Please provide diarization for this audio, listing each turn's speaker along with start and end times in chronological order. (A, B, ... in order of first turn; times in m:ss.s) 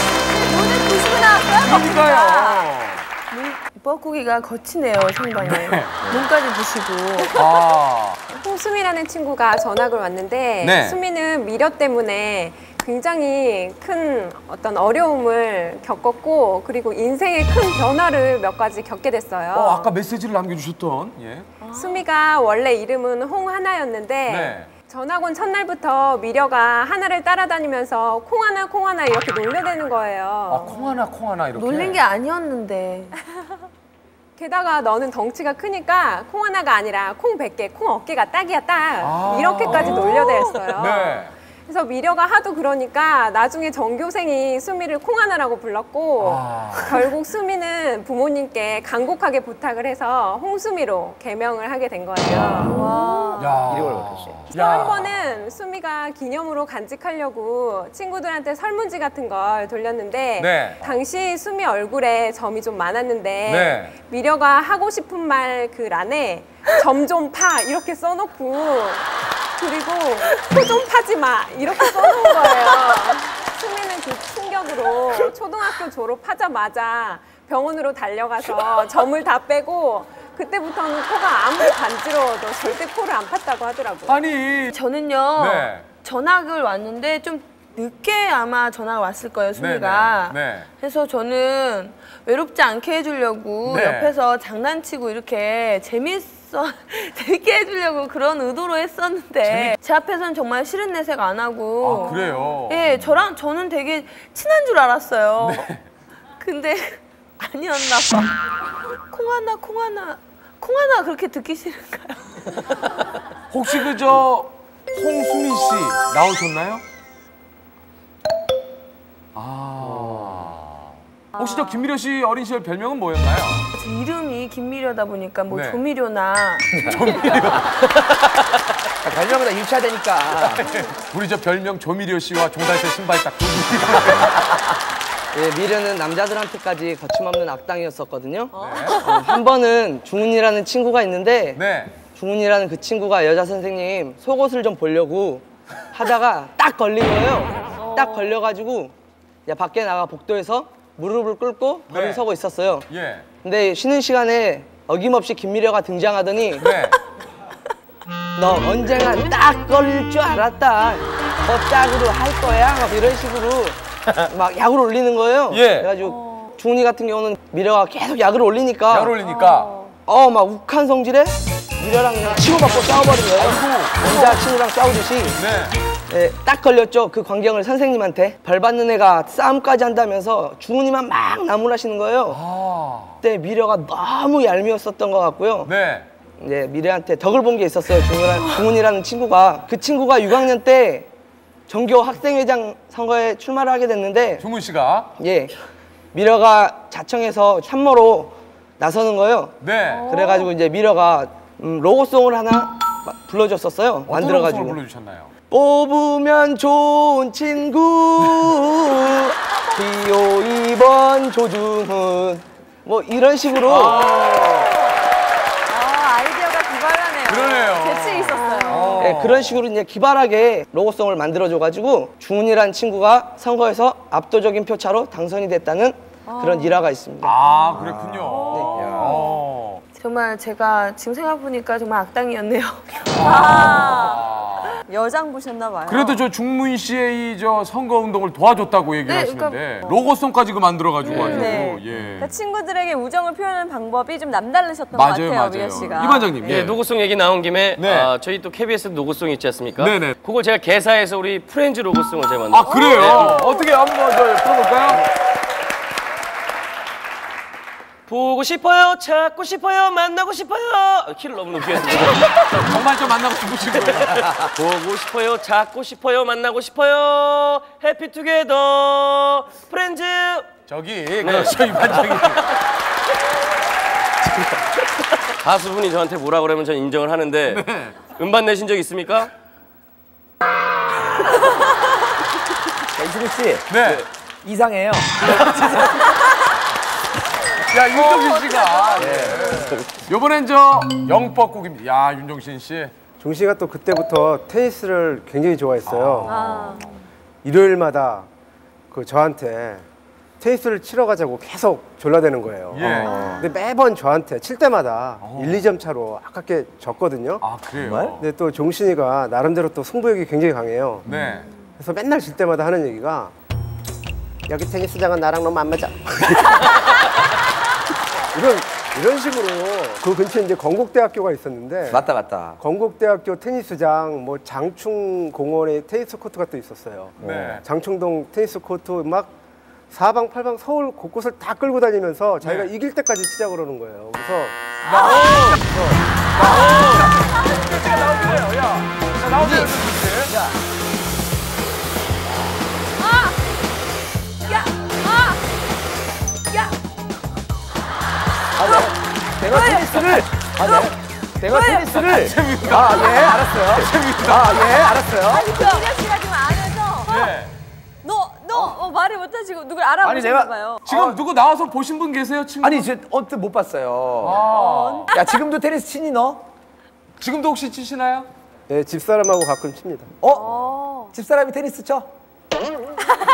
0:00.3-0:02.7 A
0:01.5-0:03.0 B
0:03.3-0:07.3 C
0:05.4-0:06.0 B
0:07.3-0:08.2 B
0:08.4-0:19.9 D
0:10.6-0:11.0 B
0:19.5-0:21.5 B
0:21.6-0:22.0 C
0:21.7-0:30.7 D
0:24.3-0:24.7 B
0:30.5-0:32.0 B
0:31.5-0:33.1 C
0:34.4-0:52.8 D
0:39.0-0:41.3 B
0:39.6-0:40.6 C
0:46.2-0:47.0 B
0:52.6-0:53.6 A
0:52.7-0:53.4 C
0:53.4-0:55.1 B
0:53.6-0:54.5 E
0:54.5-1:24.2 D
1:00.4-1:00.8 B
1:03.4-1:03.9 B
1:24.1-1:24.8 B
1:24.7-1:45.6 C
1:25.3-1:25.8 B
1:29.5-1:30.7 B
1:33.6-1:34.1 B
1:39.4-1:39.8 B
1:41.8-1:43.2 B
1:45.4-1:45.8 B
1:46.4-1:48.4 C
1:49.1-1:52.4 C
1:53.5-1:56.8 B
1:59.3-2:00.8 B
2:01.3-2:01.8 A
2:01.4-2:03.7 B
2:03.7-2:07.3 C
2:05.5-2:05.8 B
2:06.8-2:07.7 B
2:09.0-2:10.6 E
2:10.4-2:14.4 B
2:15.3-2:21.6 F
2:18.6-2:19.1 B
2:18.6-2:19.3 A
2:21.5-2:22.0 B
2:22.1-2:28.9 F
2:27.8-2:28.4 A
2:29.4-2:32.8 F
2:31.9-2:32.2 B
2:32.9-2:33.2 B
2:33.4-2:36.7 F
2:36.6-2:37.0 B
2:38.3-2:49.2 F
2:45.5-2:46.0 B
2:46.0-2:46.5 A
2:48.9-2:49.7 B
2:49.2-2:49.9 A
2:50.0-2:55.4 F
2:53.4-2:54.4 B
2:55.3-2:55.8 B
2:56.1-3:02.4 F
3:02.3-3:03.2 B
3:03.2-3:05.7 F
3:05.6-3:06.1 B
3:06.4-3:11.1 F
3:11.7-3:14.4 F
3:14.4-3:15.1 B
3:15.2-3:15.6 F
3:16.1-3:19.6 F
3:19.6-3:20.4 B
3:19.9-3:20.5 A
3:20.1-3:24.8 F
3:24.1-3:25.3 B
3:25.5-3:34.0 F
3:33.6-3:34.7 B
3:34.0-3:34.7 A
3:35.7-3:39.1 A
3:37.2-3:39.6 B
3:38.3-3:39.1 C
3:39.0-3:47.4 F
3:46.2-3:46.8 A
3:47.2-3:49.8 B
3:47.5-3:49.4 A
3:47.7-3:49.2 E
3:48.5-3:48.9 F
3:50.0-3:53.0 C
3:53.1-3:54.8 B
3:53.2-3:54.2 A
3:54.8-3:56.2 A
3:55.8-4:02.3 B
3:59.1-3:59.6 C
4:01.0-4:01.6 C
4:01.0-4:06.6 A
4:04.9-4:06.8 B
4:06.4-4:13.5 G
4:07.8-4:08.1 B
4:09.8-4:10.1 B
4:12.5-4:15.0 B
4:12.8-4:13.6 A
4:18.1-4:22.8 G
4:22.5-4:24.2 B
4:23.7-4:30.5 G
4:30.7-4:32.5 B
4:31.2-4:32.4 G
4:35.4-4:39.3 G
4:37.5-4:38.0 B
4:43.0-4:45.9 E
4:43.7-4:44.0 B
4:45.3-4:45.9 B
4:47.7-4:52.9 B
4:47.9-4:49.6 A
4:49.0-4:49.6 E
4:53.2-4:56.5 H
4:55.9-4:57.0 B
4:56.2-4:57.0 A
4:57.4-4:58.3 H
4:58.9-4:59.8 H
5:00.4-5:07.4 H
5:02.7-5:03.4 B
5:02.8-5:03.2 E
5:02.9-5:03.5 A
5:05.2-5:05.7 B
5:07.4-5:08.2 B
5:07.8-5:08.2 E
5:08.2-5:11.0 H
5:11.0-5:11.5 B
5:11.1-5:11.4 A
5:11.8-5:13.3 H
5:14.5-5:16.6 H
5:18.3-5:29.4 H
5:21.9-5:22.6 E
5:27.2-5:27.6 E
5:27.2-5:27.6 B
5:29.9-5:34.6 H
5:32.4-5:32.7 B
5:34.8-5:37.2 E
5:34.8-5:35.6 B
5:35.0-5:35.4 A
5:36.3-5:40.3 B
5:36.4-5:38.3 A
5:39.3-5:40.6 E
5:43.0-5:43.3 A
5:44.4-5:45.4 A
5:48.6-5:55.6 E
5:48.6-5:52.0 A
5:51.9-5:55.0 B
5:54.8-5:57.3 A
5:57.0-5:57.5 B
5:58.0-6:00.8 A
5:58.5-5:58.8 E
6:00.0-6:01.2 E
6:00.8-6:02.9 B
6:02.6-6:04.5 E
6:04.2-6:05.1 B
6:04.5-6:05.4 A
6:05.1-6:06.5 E
6:07.2-6:08.3 B
6:08.7-6:10.1 H
6:10.2-6:12.1 E
6:10.2-6:11.1 A